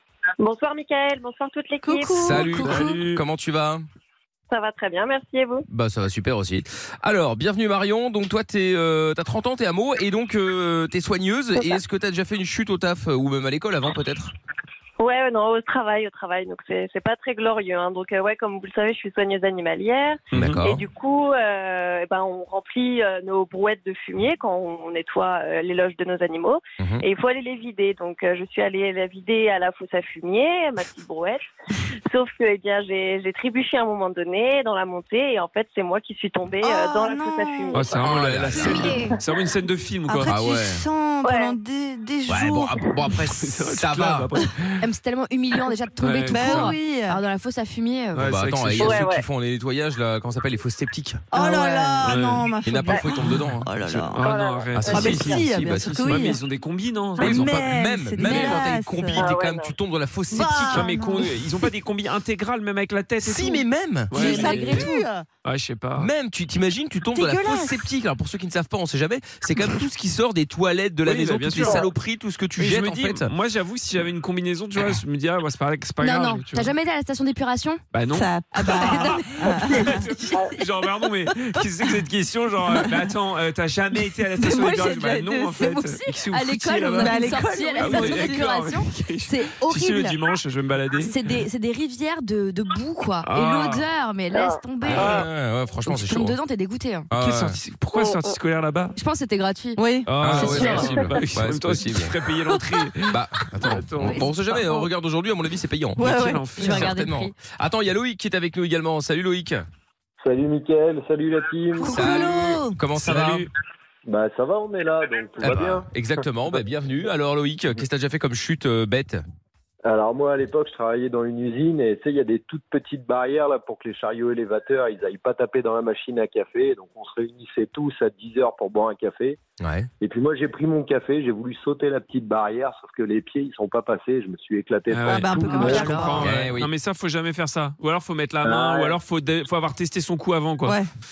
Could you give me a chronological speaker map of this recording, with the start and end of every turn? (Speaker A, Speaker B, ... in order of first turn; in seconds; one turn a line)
Speaker A: 0.4-2.5
Speaker B: 1.8-3.0
Speaker C: 2.2-3.8
Speaker D: 2.5-3.2
Speaker A: 4.5-5.6
Speaker C: 5.7-14.3
Speaker A: 15.0-31.4
Speaker D: 20.3-20.6
Speaker C: 20.3-20.8
Speaker A: 32.1-38.0
Speaker B: 36.6-37.9
Speaker D: 37.7-40.3
Speaker C: 38.0-39.0
Speaker B: 38.5-39.1
Speaker B: 40.1-42.7
Speaker C: 40.2-40.8
Speaker A: 41.2-41.5
Speaker C: 42.3-44.3
Speaker D: 43.3-44.8
Speaker E: 44.8-48.2
Speaker D: 46.0-46.8
Speaker B: 46.3-47.2
Speaker D: 48.1-49.1
Speaker C: 48.2-51.2
Speaker A: 48.8-49.2
Speaker B: 51.3-54.2
Speaker E: 51.3-52.1
Speaker D: 52.0-52.5
Speaker C: 52.6-54.1
Speaker D: 54.1-57.6
Speaker A: 54.2-55.5
Speaker C: 54.7-56.1
Speaker B: 54.9-56.4
Speaker C: 57.2-61.0
Speaker B: 57.2-59.3
Speaker D: 58.2-58.6
Speaker A: 59.1-59.7
Speaker B: 60.3-61.2
Speaker D: 60.7-63.6
Speaker C: 63.2-64.9
Speaker D: 64.1-64.9
Speaker B: 64.1-65.2
Speaker D: 65.4-66.1
Speaker C: 66.0-73.3
Speaker B: 67.2-67.9
Speaker D: 71.0-71.9
Speaker D: 72.6-76.7
Speaker E: 76.0-77.8
Speaker D: 77.9-91.1
Speaker B: 78.1-80.5
Speaker E: 78.6-79.2
Speaker B: 84.4-86.0
Speaker E: 86.3-90.2
Speaker B: 87.0-88.5
Speaker E: 91.0-95.2
Speaker D: 93.2-93.9
Speaker D: 94.9-95.2
Speaker C: 94.9-96.4
Speaker E: 95.8-97.1
Speaker C: 97.1-97.5
Speaker D: 97.2-98.9
Speaker E: 99.0-101.0
Speaker B: 99.8-100.1
Speaker D: 100.0-104.6
Speaker C: 100.2-102.2
Speaker C: 103.1-109.6
Speaker B: 106.0-106.4
Speaker D: 106.0-106.9
Speaker E: 106.6-107.3
Speaker F: 110.2-112.0
Speaker B: 111.8-112.8
Speaker C: 111.9-113.5
Speaker D: 113.0-113.5
Speaker F: 114.0-115.8
Speaker C: 115.4-119.2
Speaker F: 119.8-129.4
Speaker C: 129.6-129.9
Speaker F: 130.0-136.0
Speaker D: 134.9-140.8
Speaker B: 135.1-136.3
Speaker E: 135.4-136.2
Speaker C: 136.2-136.7
Speaker F: 138.4-139.0